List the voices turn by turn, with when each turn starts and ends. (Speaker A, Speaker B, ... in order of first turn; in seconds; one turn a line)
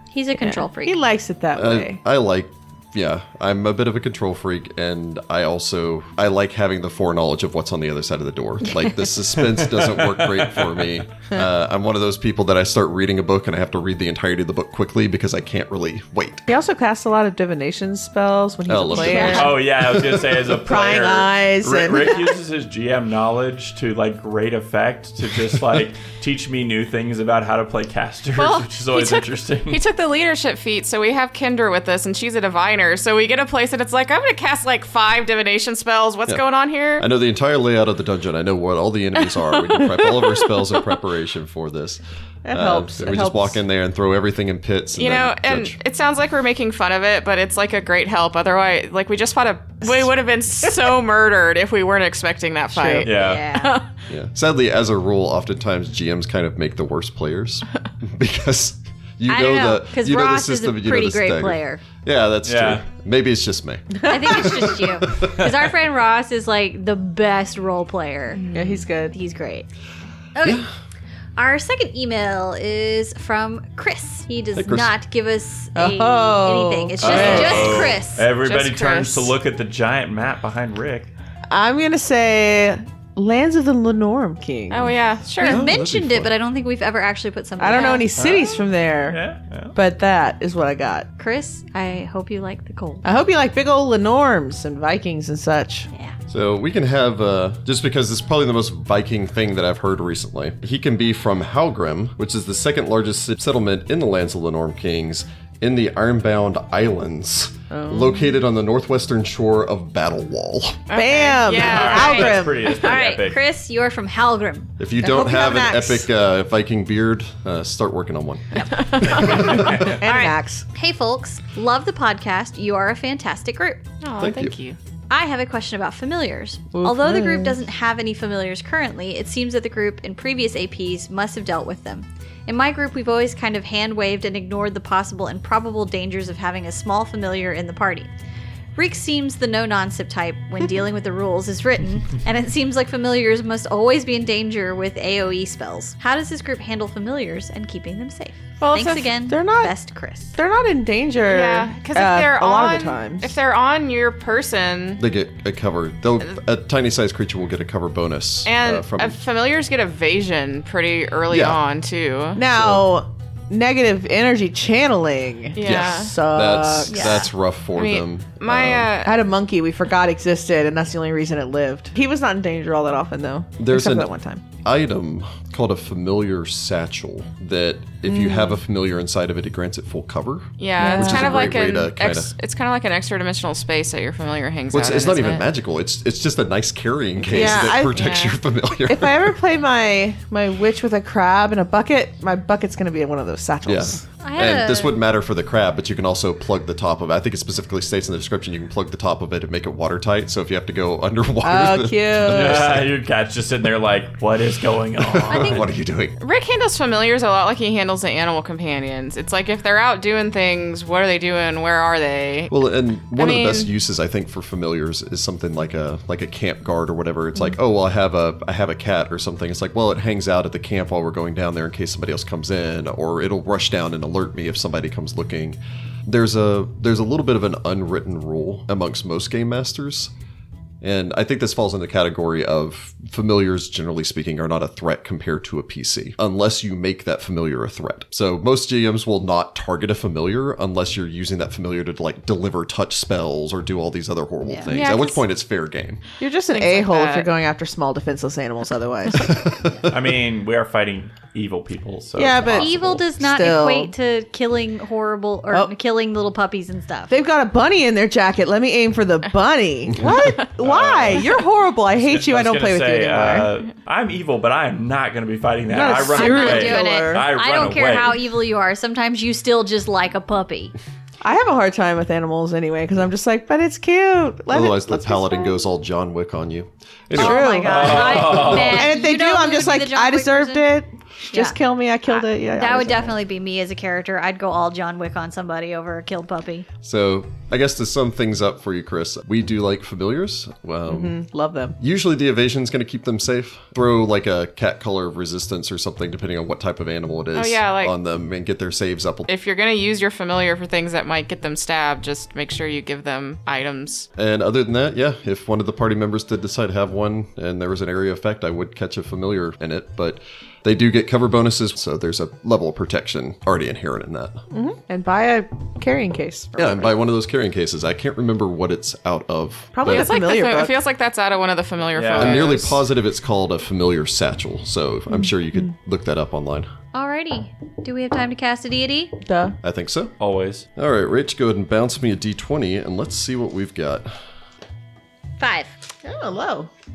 Speaker A: 0.1-1.0
Speaker B: 0.4-2.0
Speaker C: 1.5-16.5
Speaker D: 9.4-10.9
Speaker B: 16.5-19.6
Speaker C: 18.7-20.5
Speaker A: 18.9-19.6
Speaker D: 19.2-29.8
Speaker B: 20.6-22.3
Speaker E: 28.4-37.1
Speaker C: 37.0-45.8
Speaker B: 42.5-43.6
Speaker E: 45.0-53.9
Speaker B: 52.7-53.1
Speaker D: 53.0-53.5
Speaker A: 53.1-53.7
Speaker C: 54.1-65.5
Speaker A: 59.3-61.8
Speaker D: 62.5-62.8
Speaker A: 64.0-68.5
Speaker B: 64.1-64.4
Speaker E: 68.4-68.8
Speaker B: 68.5-69.2
Speaker A: 69.1-69.7
Speaker A: 70.3-70.6
Speaker C: 70.4-70.7
Speaker A: 71.4-78.3
Speaker C: 74.6-74.9
Speaker B: 75.8-78.0
Speaker D: 77.0-81.1
Speaker E: 77.2-77.8
Speaker E: 78.4-79.3
Speaker B: 81.5-85.0
Speaker E: 84.7-85.7
Speaker C: 85.4-86.3
Speaker A: 85.4-88.1
Speaker B: 87.6-89.2
Speaker D: 88.2-89.8
Speaker B: 89.8-91.1
Speaker A: 91.2-93.1
Speaker B: 93.0-95.9
Speaker C: 96.3-110.8
Speaker B: 107.7-108.3
Speaker E: 110.9-112.4
Speaker B: 110.9-112.7
Speaker D: 111.5-113.4
Speaker A: 111.9-114.7
Speaker C: 114.8-119.9
Speaker B: 115.0-116.1
Speaker A: 118.5-123.8
Speaker E: 118.6-119.4
Speaker D: 119.3-120.0
Speaker B: 119.3-120.7
Speaker E: 124.0-124.8
Speaker C: 124.2-124.6
Speaker A: 125.1-138.1
Speaker B: 126.7-127.6
Speaker A: 138.8-150.3
Speaker E: 148.6-149.2
Speaker B: 149.3-149.7
Speaker B: 150.3-153.3
Speaker E: 151.2-155.0
Speaker C: 155.0-159.2
Speaker E: 158.4-162.4
Speaker C: 161.3-161.6
Speaker B: 162.4-167.2
Speaker C: 162.5-162.8
Speaker E: 165.6-166.2
Speaker C: 165.6-168.9
Speaker A: 166.9-167.3
Speaker E: 167.8-169.1
Speaker B: 169.1-174.4
Speaker C: 173.6-174.1
Speaker C: 174.6-182.3
Speaker B: 178.1-178.6
Speaker E: 180.6-185.4
Speaker B: 180.8-181.5
Speaker C: 184.7-189.4
Speaker B: 187.2-188.0
Speaker E: 187.3-188.4
Speaker B: 188.9-194.0
Speaker C: 193.7-202.9
Speaker A: 194.2-195.0
Speaker B: 201.4-202.7
Speaker D: 202.2-205.7
Speaker C: 205.0-206.2
Speaker A: 205.3-205.7
Speaker E: 206.2-212.5
Speaker C: 212.5-230.1
Speaker E: 213.2-213.7
Speaker C: 230.8-246.0
Speaker A: 244.4-244.7
Speaker E: 244.7-245.2
Speaker B: 246.2-249.4
Speaker E: 246.5-247.3
Speaker C: 249.1-250.1
Speaker D: 249.9-253.0
Speaker B: 252.2-253.9
Speaker A: 252.5-257.1
Speaker B: 257.1-263.5
Speaker D: 260.6-261.4
Speaker D: 262.0-268.2
Speaker B: 265.7-267.3
Speaker A: 265.9-270.8
Speaker B: 271.2-275.6
Speaker C: 274.5-278.4
Speaker A: 277.1-280.8
Speaker B: 277.1-283.2
Speaker D: 277.6-279.0
Speaker A: 282.1-286.7
Speaker C: 286.8-291.1
Speaker B: 290.9-291.8
Speaker C: 291.8-299.3
Speaker E: 297.3-297.9
Speaker E: 299.3-304.1
Speaker C: 304.2-314.4
Speaker B: 314.5-316.9
Speaker C: 316.6-320.1
Speaker B: 319.7-320.8
Speaker E: 319.9-322.8
Speaker D: 321.9-322.5
Speaker C: 322.2-326.7
Speaker B: 325.1-325.6
Speaker A: 326.9-329.1
Speaker B: 329.2-329.6
Speaker C: 329.6-330.1
Speaker D: 330.2-330.7
Speaker C: 330.8-334.1
Speaker A: 335.4-335.7
Speaker B: 336.0-336.7